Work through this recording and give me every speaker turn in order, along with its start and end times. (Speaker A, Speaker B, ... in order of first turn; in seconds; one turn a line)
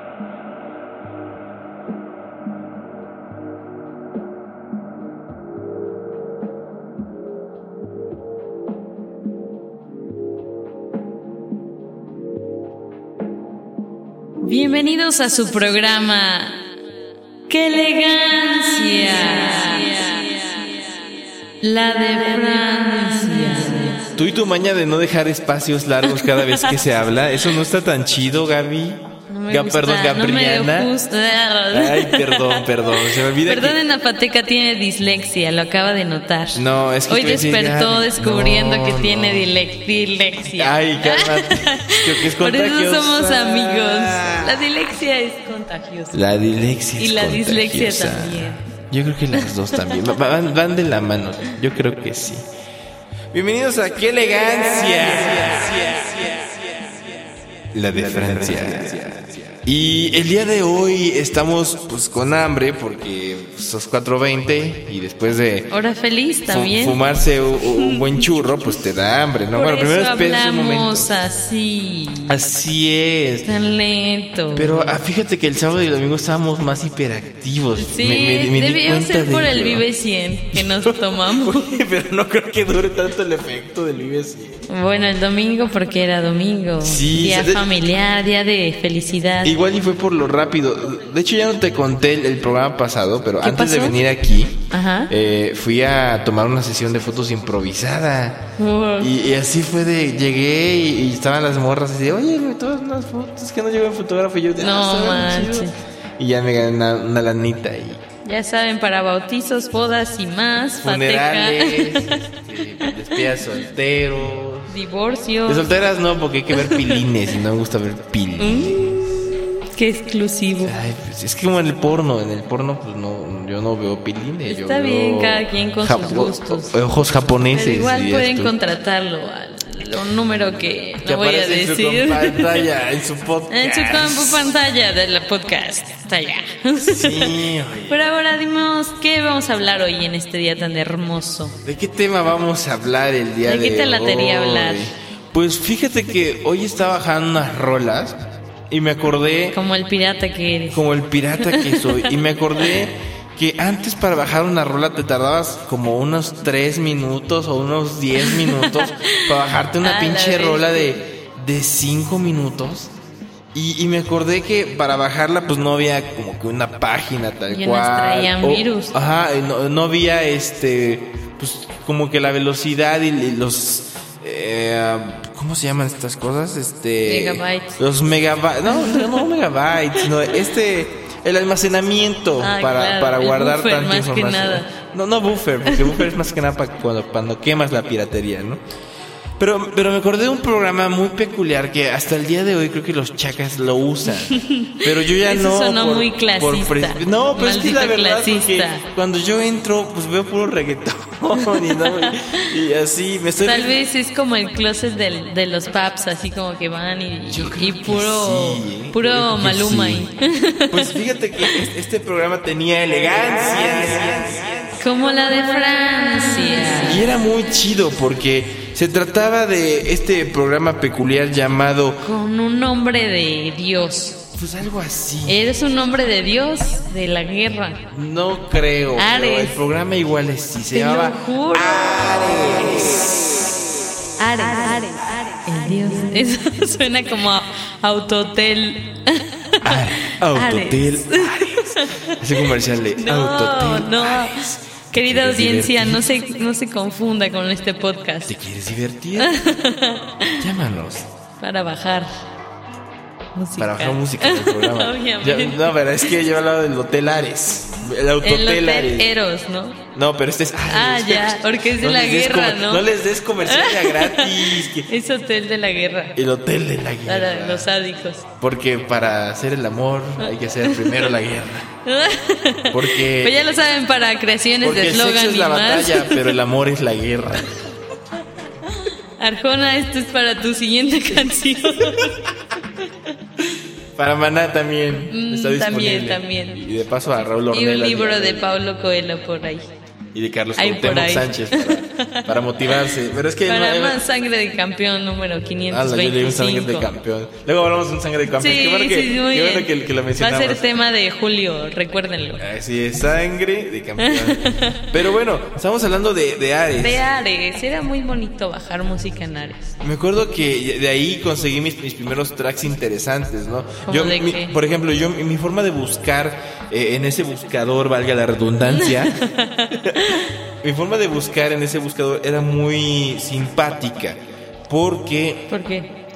Speaker A: 14.4-16.6
Speaker A: 17.5-20.9
Speaker A: 21.6-24.1
Speaker B: 24.1-30.9
Speaker A: 26.0-26.9
Speaker A: 29.3-46.2
Speaker B: 31.7-33.8
Speaker B: 36.5-39.5
Speaker B: 40.4-44.7
Speaker B: 46.1-52.5
Speaker A: 47.0-48.7
Speaker A: 49.4-50.0
Speaker B: 53.3-56.4
Speaker B: 57.7-65.7
Speaker A: 65.7-67.0
Speaker B: 66.5-71.2
Speaker A: 67.6-68.7
Speaker A: 69.5-72.4
Speaker B: 72.3-73.5
Speaker A: 73.4-75.0
Speaker B: 74.5-79.8
Speaker A: 77.8-81.8
Speaker B: 80.5-84.9
Speaker A: 84.7-89.6
Speaker B: 86.8-87.7
Speaker B: 89.4-98.4
Speaker A: 93.4-94.0
Speaker A: 94.7-95.1
Speaker A: 98.6-99.1
Speaker B: 99.0-108.0
Speaker A: 104.6-105.8
Speaker A: 108.2-112.3
Speaker B: 110.8-114.8
Speaker A: 112.8-113.3
Speaker A: 114.7-115.7
Speaker B: 115.5-119.1
Speaker A: 116.5-116.9
Speaker A: 118.4-120.8
Speaker B: 120.6-128.6
Speaker A: 124.5-126.8
Speaker A: 127.5-132.7
Speaker B: 131.0-134.5
Speaker A: 133.5-141.6
Speaker B: 136.8-138.0
Speaker B: 141.6-148.2
Speaker A: 143.4-144.9
Speaker B: 148.7-149.6
Speaker A: 149.5-150.9
Speaker B: 150.7-162.9
Speaker A: 151.4-152.1
Speaker A: 158.2-161.0
Speaker B: 163.5-188.6
Speaker A: 167.5-168.9
Speaker A: 177.0-177.8
Speaker A: 178.7-179.2
Speaker A: 182.4-184.7
Speaker B: 189.4-203.8
Speaker A: 194.1-198.9
Speaker A: 201.4-202.1
Speaker A: 203.4-211.7
Speaker B: 207.3-210.1
Speaker B: 210.7-214.8
Speaker A: 214.8-217.1
Speaker B: 216.8-222.1
Speaker A: 222.0-224.2
Speaker B: 224.3-225.4
Speaker A: 225.3-227.8
Speaker B: 227.9-233.3
Speaker A: 228.9-229.6
Speaker A: 230.7-233.0
Speaker A: 234.2-248.4
Speaker B: 239.6-246.1
Speaker B: 248.3-249.4
Speaker A: 249.2-250.5
Speaker B: 250.4-251.1
Speaker A: 251.4-252.1
Speaker A: 253.3-256.2
Speaker B: 253.6-259.1
Speaker A: 258.2-259.8
Speaker B: 259.9-264.9
Speaker A: 260.7-262.9
Speaker A: 263.4-266.2
Speaker B: 266.1-267.7
Speaker A: 267.1-268.2
Speaker B: 268.4-271.7
Speaker A: 270.6-271.1
Speaker A: 271.9-276.3
Speaker B: 272.7-273.4
Speaker B: 274.6-277.5
Speaker A: 278.8-282.3
Speaker B: 284.0-288.5
Speaker A: 285.1-286.6
Speaker A: 287.5-289.7
Speaker B: 290.1-294.0
Speaker A: 290.6-292.9
Speaker A: 293.4-296.9
Speaker B: 295.7-300.6
Speaker A: 298.4-302.4
Speaker B: 302.4-307.0
Speaker A: 304.0-305.0
Speaker A: 306.8-309.8
Speaker B: 309.8-319.2
Speaker A: 313.9-314.6
Speaker A: 318.6-320.3
Speaker B: 319.7-320.0
Speaker B: 320.6-325.5
Speaker A: 325.5-325.9